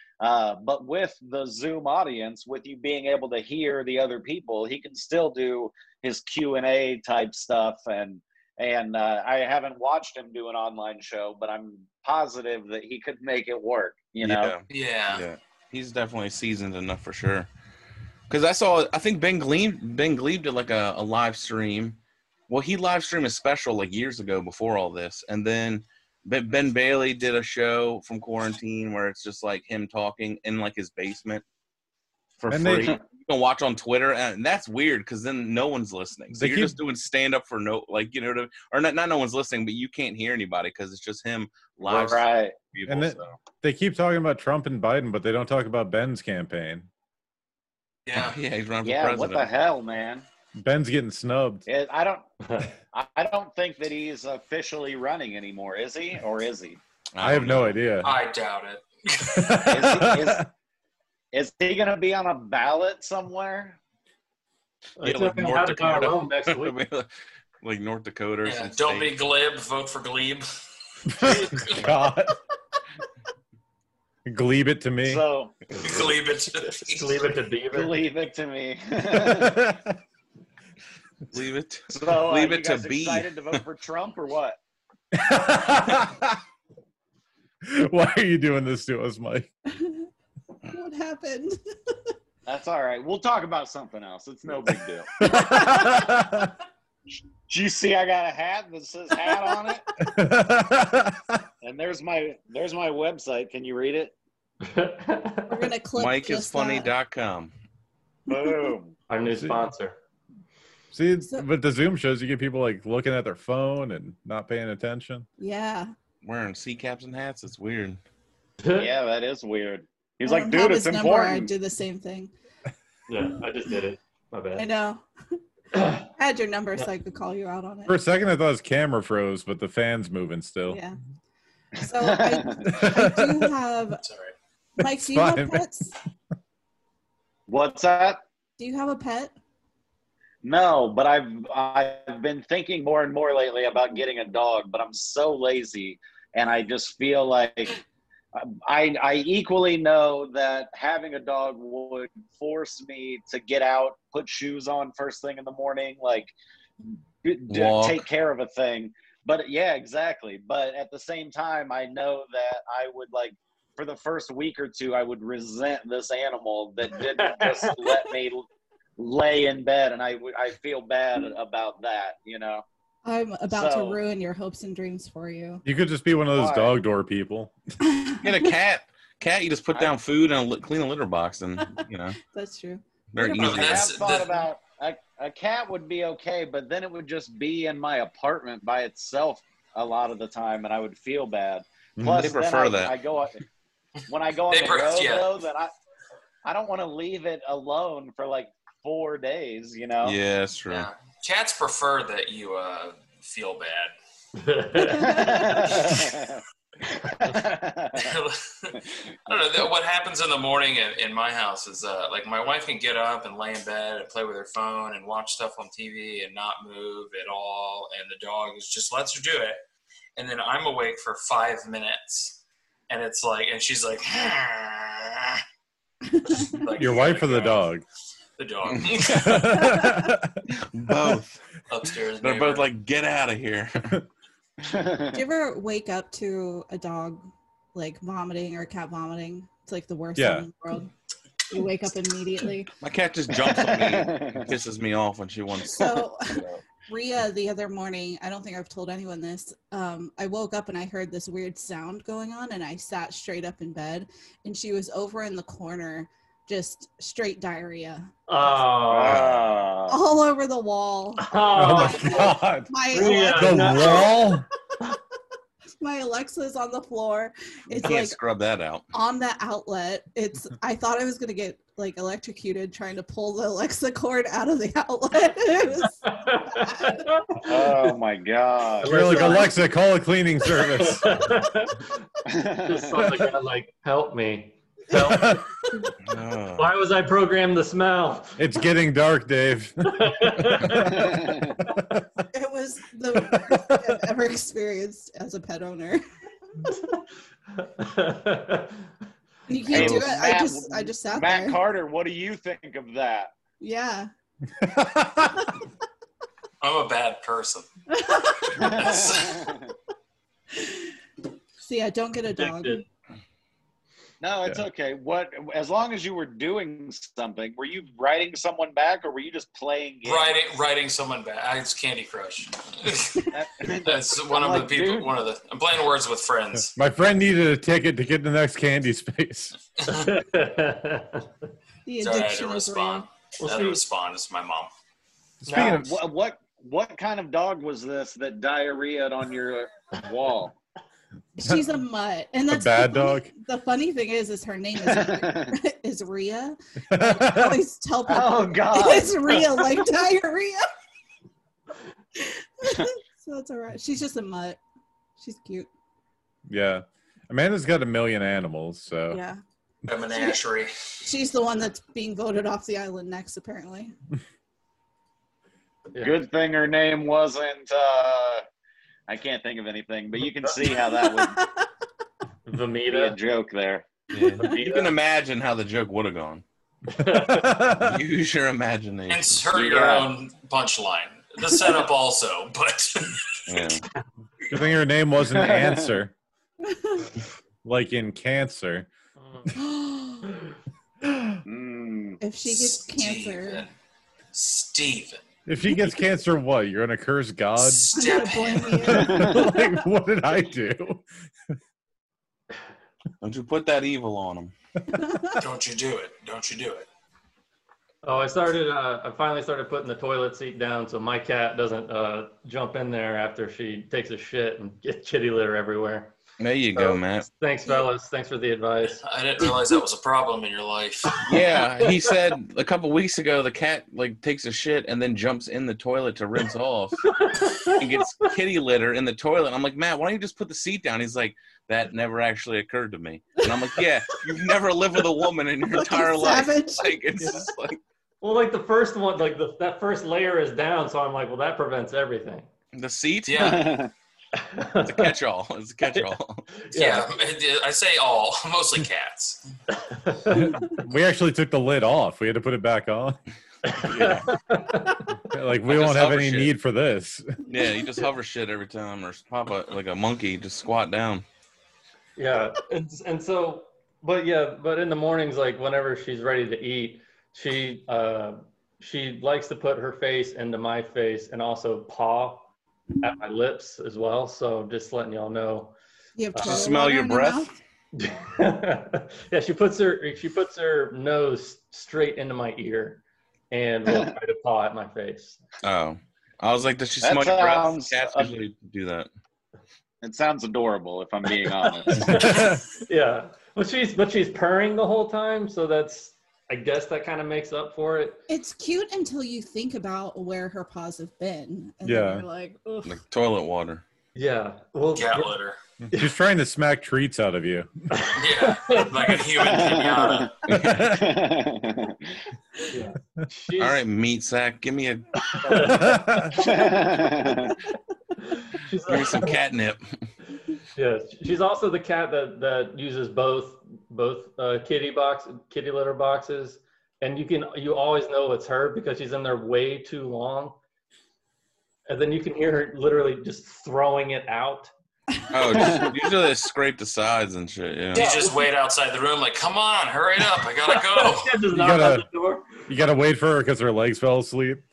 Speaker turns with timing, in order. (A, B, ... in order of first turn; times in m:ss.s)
0:00.2-0:14.5 A
0:14.2-0:17.5 B
0:14.7-0:15.2 C
0:18.3-0:31.4 B
0:32.4-0:43.3 B
0:32.5-0:33.0 D
0:36.3-0:36.8 D
0:41.8-0:42.6 A
0:42.9-0:46.9 D
0:48.0-0:48.4 C
0:48.1-0:49.5 B
0:48.8-0:50.2 A
0:50.6-0:51.6 D
0:51.7-0:52.3 A
0:52.4-0:52.7 E
0:52.9-0:56.8 A
0:57.1-0:57.7 B
0:57.2-0:58.1 D
0:58.0-0:59.7 C
0:59.3-1:00.4 D
0:59.7-1:00.5 A
1:01.3-1:03.8 A
1:05.0-1:06.8 E
1:05.0-1:07.1 B
1:07.6-1:09.1 B
1:08.4-1:10.4 C
1:11.1-1:12.3 D
1:11.1-1:11.8 C
1:14.3-1:15.2 D
1:15.0-1:15.6 A
1:15.7-1:17.9 E
1:15.8-1:17.2 C
1:17.7-1:19.7 A
1:19.1-1:20.0 D
1:21.3-1:23.6 B
1:21.9-1:24.6 A
1:25.1-1:26.4 D
1:27.6-1:29.5 D
1:29.7-1:30.1 F
1:30.7-1:32.1 F
1:32.4-1:35.1 A
1:35.2-1:36.5 D
1:35.3-1:36.0 F
1:37.5-1:39.8 A
1:40.0-1:41.3 D
1:41.6-1:44.1 A
1:44.6-1:45.7 E
1:45.5-1:46.9 F
1:46.0-1:47.5 B
1:48.3-1:48.8 F
1:48.3-1:48.9 A
1:49.1-1:50.0 E
1:49.4-1:49.6 D
1:50.9-1:55.3 D
1:55.4-1:55.9 F
1:56.2-1:58.0 B
1:58.6-1:58.9 E
1:58.8-2:01.5 A
2:00.2-2:02.3 F
2:03.1-2:04.7 E
2:04.6-2:05.0 F
2:05.7-2:06.1 E
2:06.1-2:08.0 F
2:07.9-2:10.8 D
2:10.7-2:11.0 F
2:11.8-2:14.0 F
2:12.0-2:12.9 A
2:12.7-2:13.5 D
2:14.0-2:14.3 C
2:14.8-2:16.0 F
2:14.8-2:15.6 D
2:17.5-2:18.2 A
2:18.6-2:19.3 F
2:20.4-2:27.8 A
2:28.3-2:36.3 A
2:36.8-2:48.4 A
2:37.5-2:38.1 B
2:47.2-2:48.0 E
2:49.0-2:52.6 A
2:53.0-2:55.6 F
2:53.5-2:54.0 A
2:55.6-2:57.5 D
2:56.3-2:56.7 A
2:57.8-2:58.5 F
2:58.2-3:02.2 B
3:01.6-3:03.6 F
3:03.1-3:03.9 B
3:03.3-3:13.4 A
3:03.3-3:04.4 C
3:12.0-3:12.3 D
3:12.1-3:13.0 B
3:14.1-3:15.7 A
3:14.5-3:15.3 C
3:16.4-3:20.2 A
3:20.0-3:20.9 B
3:20.7-3:23.9 C
3:24.4-3:25.2 E
3:24.8-3:28.1 A
3:24.9-3:25.5 F
3:28.0-3:39.6 C
3:40.2-3:45.4 C
3:46.1-3:46.5 F
3:46.4-3:47.7 C
3:46.8-3:47.8 D
3:48.4-3:49.7 C
3:48.7-3:49.4 B
3:49.1-3:51.2 D
3:49.6-3:50.1 F
3:50.5-3:51.4 B
3:51.7-3:52.7 C
3:52.2-3:54.0 B
3:54.6-3:55.2 A
3:55.1-4:00.9 F
4:00.2-4:00.5 D
4:01.5-4:02.7 F
4:02.8-4:06.6 B
4:03.4-4:04.5 A
4:05.7-4:18.6 F
4:18.3-4:19.3 E
4:18.9-4:20.0 A
4:19.1-4:19.6 B
4:19.9-4:24.4 F
4:21.2-4:22.3 E
4:21.5-4:24.4 D
4:22.9-4:24.2 E
4:25.8-4:28.2 F
4:27.8-4:28.9 B
4:28.9-4:36.0 F
4:36.0-4:37.9 E
4:37.4-4:39.0 A
4:38.8-4:39.5 E
4:38.8-4:41.2 D
4:39.1-4:39.5 F
4:40.8-4:42.0 E
4:42.3-4:43.0 A
4:42.6-4:45.4 E
4:45.1-4:45.4 D
4:46.0-4:46.7 B
4:46.6-4:48.4 E
4:48.4-4:51.1 D
4:50.0-4:51.8 E
4:50.9-4:51.6 A
4:52.3-4:56.0 F
4:53.5-4:53.8 D
4:57.6-4:58.9 E
4:59.5-5:01.6 F
4:59.7-5:03.3 A
4:59.7-5:00.0 B
5:03.6-5:04.1 F
5:04.6-5:05.4 D
5:06.6-5:07.7 C
5:07.9-5:08.7 F
5:08.5-5:09.4 C
5:08.5-5:09.7 A
5:10.6-5:10.8 F
5:11.6-5:12.8 F
5:12.3-5:12.8 E
5:14.2-5:20.4 A
5:20.0-5:26.7 C
5:23.3-5:25.1 A
5:26.8-5:29.5 D
5:29.8-5:30.1 C
5:29.9-5:31.3 E
5:31.9-5:33.1 F
5:32.0-5:34.7 C
5:33.4-5:33.8 E
5:35.4-5:35.9 D
5:35.4-5:35.8 E
5:35.5-5:40.6 A
5:41.4-5:50.7 F
5:42.5-5:43.3 D
5:44.8-5:45.6 A
5:46.9-5:47.6 D
5:48.1-5:49.4 A
5:52.2-5:54.6 F
5:55.2-5:55.7 F
5:56.5-5:59.2 D
5:59.1-5:59.4 F
5:59.9-6:00.7 C
6:00.1-6:00.4 F
6:01.0-6:03.9 F
6:06.0-6:08.4 A
6:09.1-6:11.4 A
6:10.7-6:11.7 F
6:12.4-6:13.2 E
6:12.9-6:13.9 A
6:14.1-6:16.4 B
6:14.4-6:14.9 E
6:16.9-6:17.6 E
6:17.0-6:18.0 D
6:17.7-6:19.5 B
6:19.1-6:23.4 C
6:19.5-6:20.1 A
6:23.5-6:23.8 B
6:24.5-6:26.1 D
6:25.3-6:26.0 A
6:26.7-6:27.1 F
6:27.6-6:28.9 D
6:29.2-6:29.5 E
6:29.6-6:30.3 F
6:31.0-6:31.3 D
6:31.4-6:32.2 A
6:32.2-6:33.6 F
6:32.4-6:33.7 C
6:34.3-6:35.2 C
6:35.5-6:38.0 D
6:37.6-6:39.1 C
6:37.9-6:39.8 F
6:38.8-6:41.0 D
6:39.0-6:39.4 A
6:43.2-6:44.5 B
6:45.0-6:45.4 F
6:45.4-6:46.9 C
6:48.0-6:56.1 E
6:56.4-6:57.3 B
6:56.7-6:59.0 E
6:59.0-7:01.3 C
7:01.2-7:07.1 B
7:01.2-7:02.1 E
7:07.1-7:08.3 E
7:07.7-7:17.8 B
7:15.7-7:17.0 F
7:17.2-7:17.5 E
7:18.2-7:22.5 E
7:22.7-7:23.7 B
7:23.3-7:23.7 C
7:23.4-7:23.9 A
7:24.4-7:25.1 E
7:24.8-7:26.5 B
7:26.6-7:27.1 E
7:26.7-7:29.4 C
7:29.8-7:30.6 E
7:30.3-7:33.2 D
7:33.6-7:35.1 E
7:33.7-7:34.3 B
7:35.3-7:37.4 D
7:35.7-7:36.5 B
7:37.4-7:41.2 B
7:42.2-7:52.5 E
7:53.0-7:55.7 E
7:56.2-7:57.6 F
7:56.3-7:56.7 E
7:56.4-7:57.5 B
7:58.0-8:05.4 E
8:03.9-8:04.1 A
8:05.6-8:09.1 B
8:07.0-8:08.4 A
8:10.0-8:12.4 A
8:11.9-8:18.2 E
8:18.3-8:23.0 F
8:21.8-8:22.2 D
8:22.8-8:23.8 B
8:24.1-8:25.3 E
8:25.0-8:25.6 C
8:25.8-8:28.0 D
8:27.9-8:29.6 E
8:28.1-8:30.3 C
8:29.4-8:32.0 A
8:30.4-8:31.0 B
8:30.6-8:31.1 D
8:32.7-8:33.8 E
8:33.6-8:35.7 B
8:35.3-8:36.5 E
8:35.7-8:36.4 D
8:36.4-8:37.6 A
8:38.2-8:39.4 E
8:38.9-8:39.8 B
8:40.7-8:50.6 E
8:51.9-8:54.7 E
8:55.3-8:58.1 B
8:57.9-8:58.4 E
8:57.9-9:01.4 C
9:00.7-9:02.7 E
9:01.5-9:02.0 D
9:02.7-9:04.6 D